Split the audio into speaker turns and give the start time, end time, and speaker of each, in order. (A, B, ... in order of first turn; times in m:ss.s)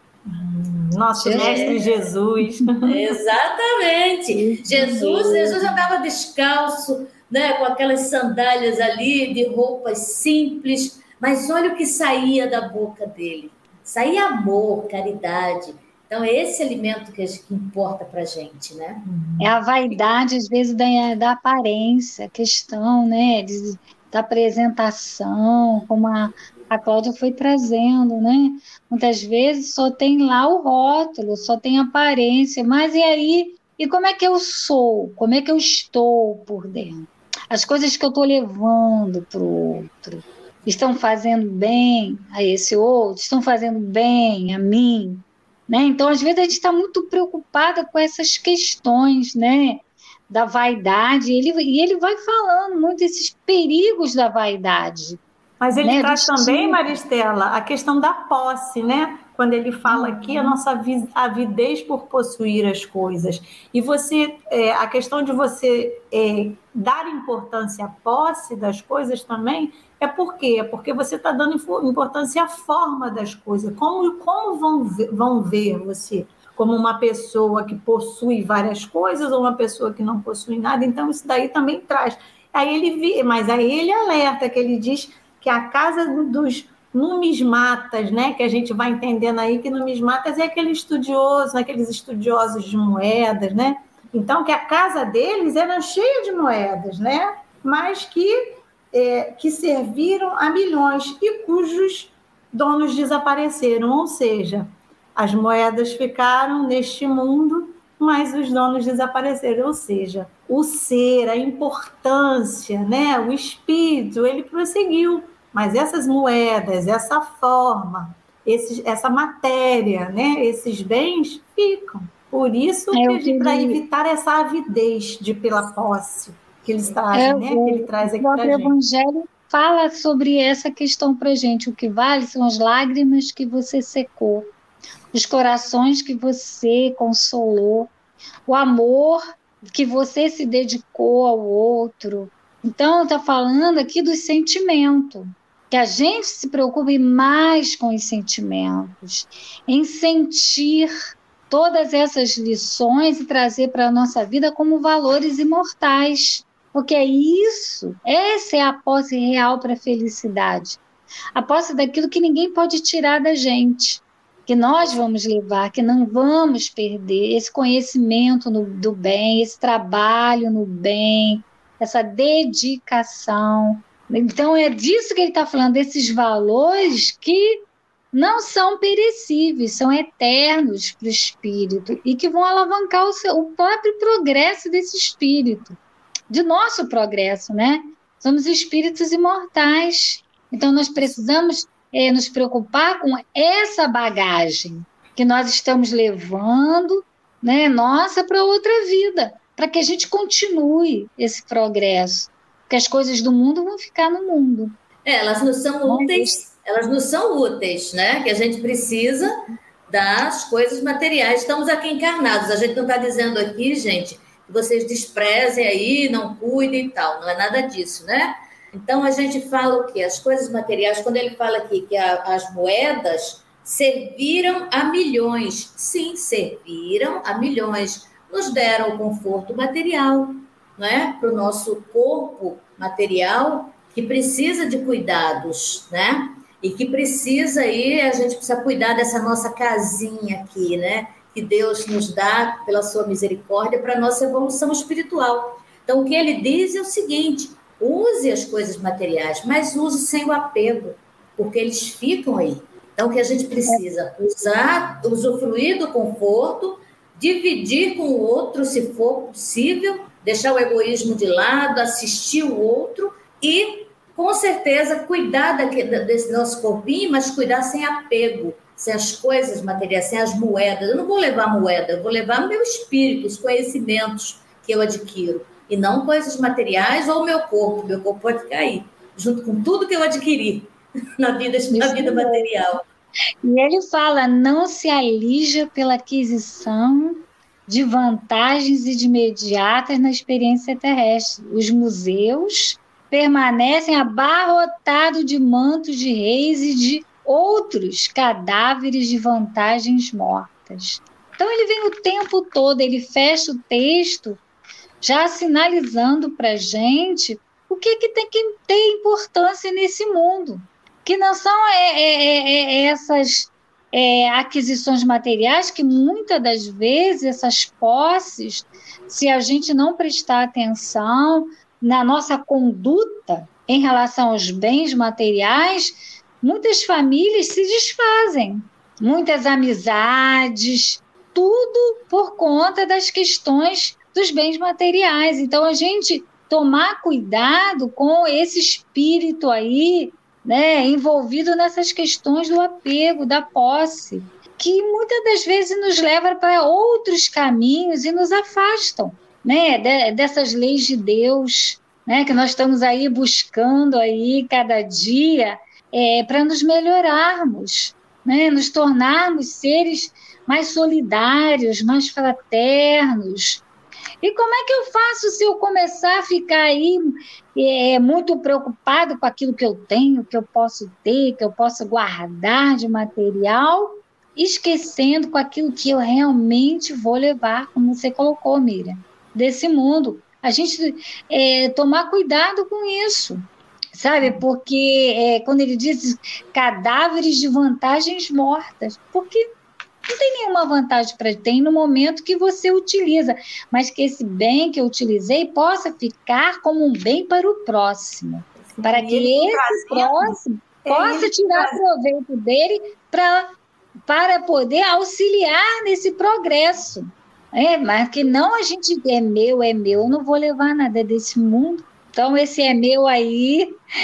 0:00.2-0:03.0 A
0:01.2-0:01.8 B
0:01.3-0:01.9 C
0:02.4-0:02.7 B
0:02.9-0:19.0 C
0:04.3-0:05.8 B
0:19.0-0:19.5 A
0:19.4-0:55.2 B
0:55.6-2:08.8 A
0:55.8-0:57.0 B
0:59.9-1:00.6 B
2:02.9-2:03.8 B
2:07.1-2:14.5 B
2:15.1-2:17.9 B
2:18.5-2:30.9 B
2:31.5-2:40.8 B
2:41.3-2:57.6 B
2:58.1-3:05.8 B
3:06.3-3:24.8 B
3:25.0-3:29.3 C
3:25.9-3:26.4 B
3:29.9-4:42.8 C
4:41.7-4:42.7 B
4:43.4-5:04.4 B
5:05.0-6:03.6 B
6:04.2-6:29.5 B
6:30.1-6:43.5 B
6:38.7-6:41.8 A
6:44.1-6:53.8 B